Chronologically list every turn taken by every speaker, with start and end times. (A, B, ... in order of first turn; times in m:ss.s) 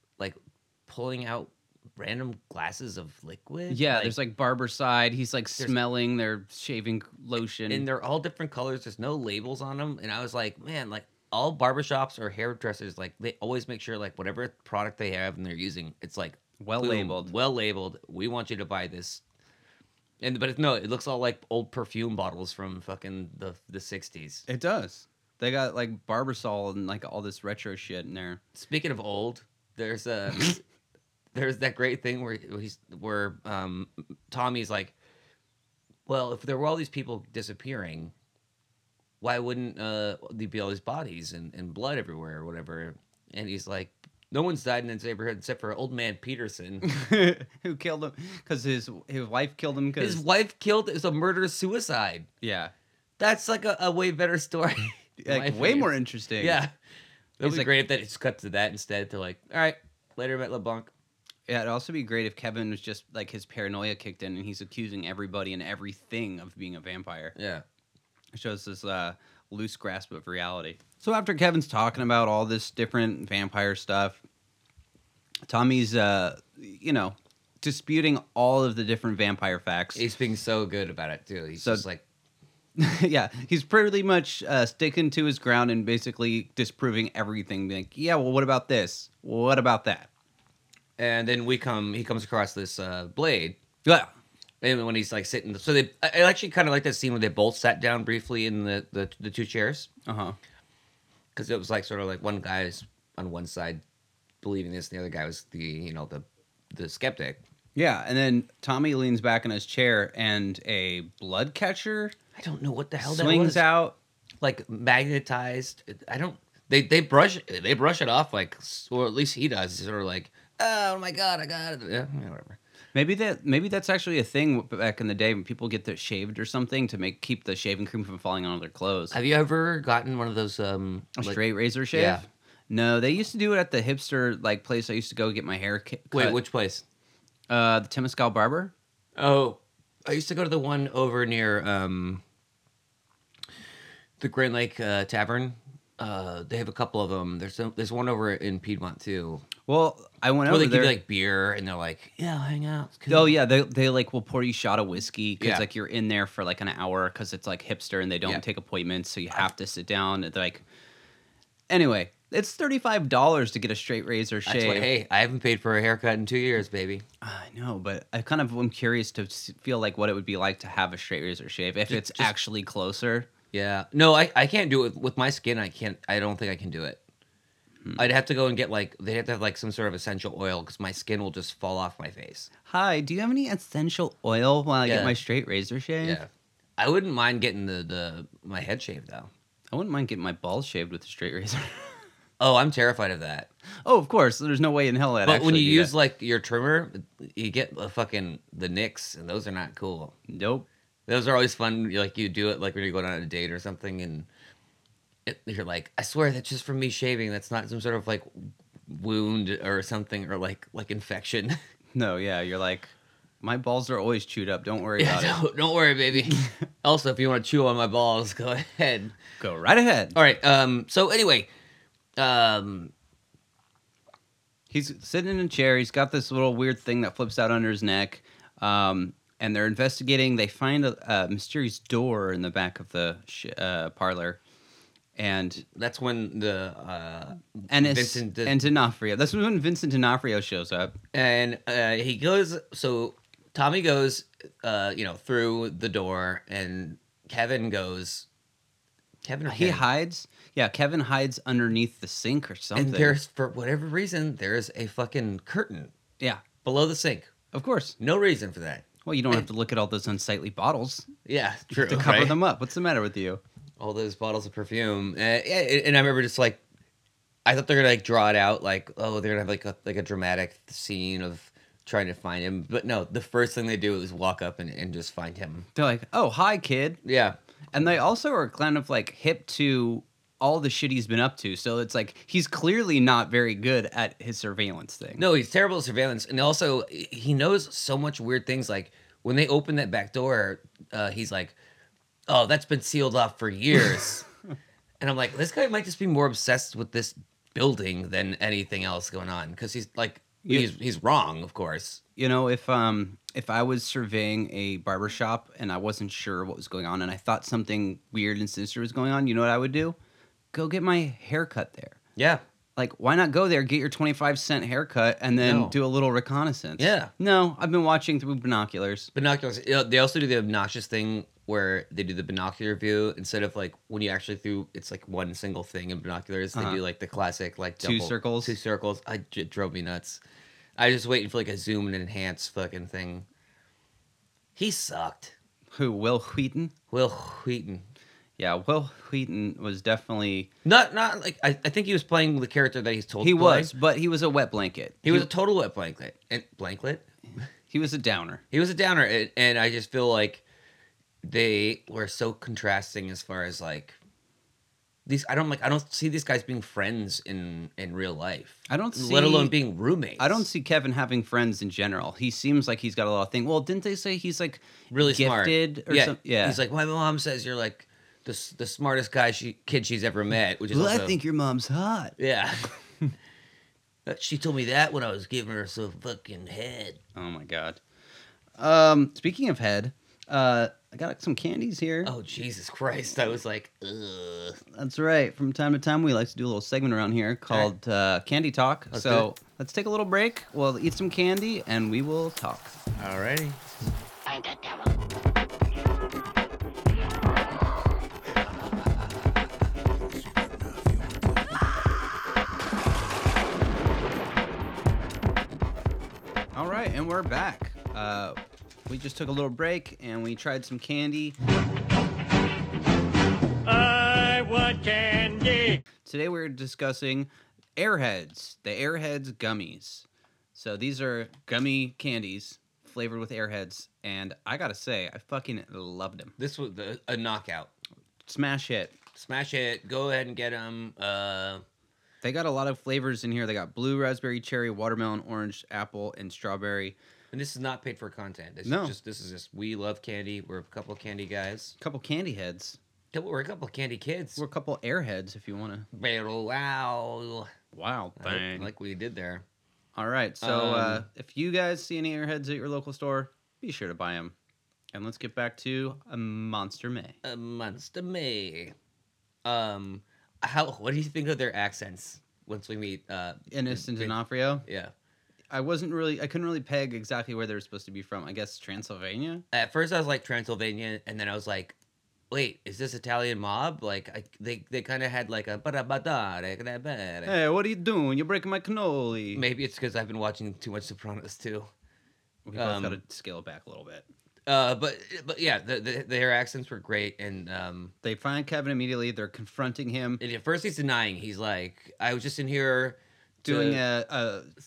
0:00.2-0:04.2 A
0:03.7-0:07.9 B
0:07.7-0:19.2 A
0:16.6-0:17.3 B
0:20.2-0:24.4 A
0:24.5-0:28.4 B
0:28.5-0:30.6 A
0:31.3-0:34.9 A
0:36.1-0:38.1 A
0:39.2-0:46.9 A
0:46.8-0:50.2 B
0:50.0-0:52.3 A
0:52.4-0:52.7 B
0:53.2-0:56.7 A
0:55.2-0:56.6 B
0:57.4-1:00.9 A
0:57.4-0:57.7 B
1:01.5-1:07.3 B
1:07.4-1:07.6 A
1:08.3-1:14.2 B
1:15.4-1:20.0 B
1:19.9-1:22.0 A
1:21.6-1:21.8 B
1:22.8-1:30.1 B
1:31.0-1:33.6 A
1:33.8-1:34.1 B
1:34.6-1:39.9 A
1:40.0-1:40.4 B
1:41.3-1:43.8 A
1:44.4-1:47.4 A
1:47.7-1:52.2 B
1:52.4-1:53.6 A
1:53.0-1:54.0 B
1:54.4-2:02.6 A
2:02.9-2:09.2 B
2:09.1-2:11.4 A
2:11.2-2:16.4 B
2:11.9-2:12.2 A
2:16.1-2:16.8 A
2:17.5-2:18.7 B
2:19.2-2:22.2 A
2:24.2-2:29.4 A
2:29.6-2:31.0 B
2:30.4-2:33.3 A
2:33.1-2:40.6 B
2:35.4-2:35.6 A
2:41.7-2:44.9 B
2:44.4-2:47.0 A
2:47.2-2:53.3 B
2:51.9-2:52.3 A
2:53.5-2:57.0 A
2:58.0-3:02.5 A
3:02.6-3:06.2 B
3:04.8-3:05.2 A
3:06.0-3:09.3 A
3:09.7-3:12.1 B
3:12.4-3:13.5 A
3:13.8-3:15.9 B
3:15.2-3:20.2 A
3:20.3-3:20.7 B
3:21.1-3:24.3 A
3:25.2-3:31.6 A
3:31.9-3:35.4 B
3:35.0-3:39.2 A
3:39.4-3:40.2 B
3:40.1-3:41.5 A
3:42.2-3:42.9 A
3:44.7-3:54.4 B
3:55.2-3:55.6 B
3:55.7-3:58.6 A
3:57.7-4:01.0 B
4:01.1-4:08.3 A
4:09.2-4:09.8 A
4:09.4-4:13.2 B
4:12.7-4:15.9 A
4:16.6-4:17.3 A
4:17.5-4:18.0 B
4:18.0-4:19.4 A
4:19.0-4:21.1 B
4:21.2-4:22.4 A
4:21.7-4:23.4 B
4:23.8-4:26.6 A
4:27.4-4:35.7 A
4:35.7-4:37.0 B
4:37.0-4:37.4 A
4:37.7-4:45.2 B
4:45.2-4:51.5 A
4:52.3-4:54.2 A
4:55.0-5:02.0 A
5:02.2-5:10.0 B
5:10.5-5:12.0 B
5:12.2-5:12.4 A
5:12.8-5:19.1 B
5:15.4-5:15.8 A
5:16.8-5:17.1 A
5:19.1-5:30.2 A
5:26.5-5:26.8 B
5:27.8-5:28.6 B
5:30.8-5:33.2 A
5:34.6-5:35.4 A
5:35.7-5:36.7 B
5:36.9-5:37.8 A
5:38.4-5:40.5 B
5:40.6-5:43.7 A
5:43.2-5:45.3 B
5:45.0-5:47.4 A
5:47.7-5:48.4 B
5:48.5-5:50.4 A
5:51.2-5:54.0 A
5:55.0-6:00.4 A
5:58.7-5:59.5 B
6:00.2-6:06.6 B
6:04.9-6:11.2 A
6:10.7-6:12.2 B
6:12.2-6:12.8 A
6:14.0-6:17.0 A
6:17.1-6:17.8 B
6:18.6-6:22.1 B
6:22.0-6:24.6 A
6:24.7-6:32.8 B
6:28.9-6:29.3 A
6:33.0-6:33.7 A
6:46.5-6:51.4 B
6:53.6-6:55.8 C
6:56.0-7:06.3 B
7:06.4-7:07.7 A
7:08.2-7:08.9 B
7:09.1-7:11.6 A
7:12.2-7:17.0 B
7:17.3-7:21.8 A
7:18.6-7:18.9 B
7:21.8-7:22.8 B
7:23.1-7:24.4 A
7:24.4-7:25.9 B
7:25.9-7:27.5 A
7:27.7-7:28.7 B
7:28.2-7:29.4 A
7:30.0-7:34.3 B
7:30.4-7:31.0 A
7:34.9-7:37.2 B
7:37.2-7:38.7 A
7:39.4-7:44.9 A
7:43.5-7:44.6 B
7:45.5-7:49.4 B
7:49.5-7:51.8 A
7:52.3-7:57.4 A
7:57.2-7:59.4 B
7:59.3-8:01.7 A
8:02.4-8:04.0 B
8:02.5-8:03.0 A
8:04.5-8:07.9 A
8:08.0-8:10.2 B
8:10.2-8:13.8 A
8:13.4-8:14.5 B